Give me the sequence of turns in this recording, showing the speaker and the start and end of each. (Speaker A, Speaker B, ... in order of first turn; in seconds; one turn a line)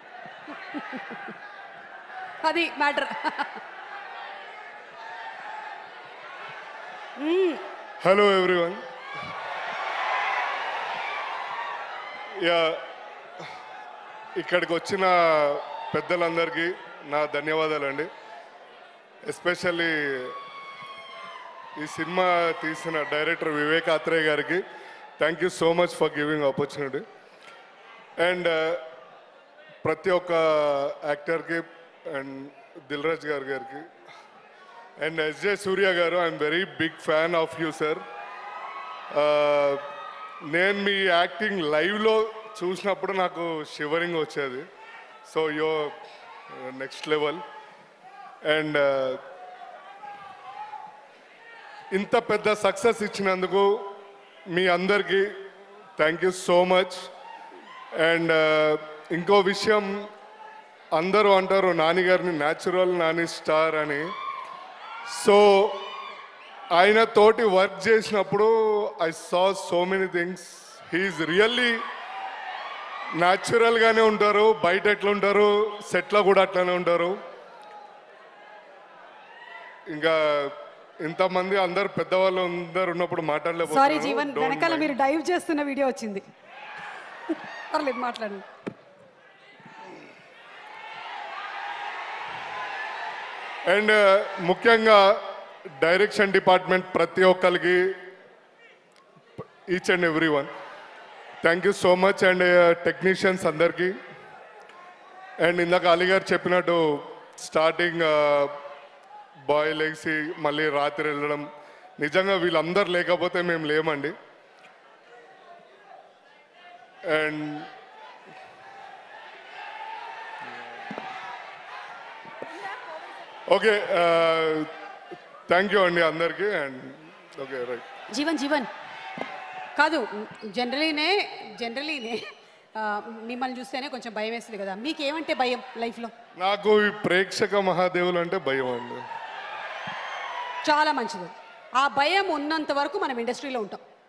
Speaker A: 0.7-1.2
Speaker A: 2.4-3.6
Speaker A: 7.2-7.6
Speaker B: 8.0-8.8
Speaker B: 12.4-12.9
Speaker B: 14.4-18.1
Speaker B: 19.3-20.4
Speaker B: 21.8-24.6
Speaker B: 25.2-27.1
Speaker B: 28.2-28.9
Speaker B: 29.8-33.9
Speaker B: 35.0-38.0
Speaker B: 39.1-39.9
Speaker B: 40.5-44.6
Speaker B: 45.2-46.0
Speaker B: 46.5-47.4
Speaker B: 48.5-49.2
Speaker B: 51.9-53.9
Speaker B: 54.5-55.3
Speaker B: 56.0-57.1
Speaker B: 58.0-60.0
Speaker B: 60.9-64.1
Speaker B: 65.1-65.9
Speaker B: 66.7-71.8
Speaker B: 73.2-77.2
Speaker B: 79.9-85.0
Speaker A: 83.7-86.2
Speaker A: 87.3-88.5
Speaker B: 93.7-95.2
Speaker B: 95.8-98.0
Speaker B: 99.4-100.5
Speaker B: 101.4-104.0
Speaker B: 105.4-108.6
Speaker B: 109.5-111.5
Speaker B: 112.0-114.2
Speaker B: 117.1-117.7
Speaker B: 123.5-124.7
Speaker B: 125.5-127.8
Speaker A: 128.1-128.7
Speaker A: 129.8-132.2
Speaker A: 132.8-136.1
Speaker B: 136.4-139.0
Speaker A: 140.7-143.8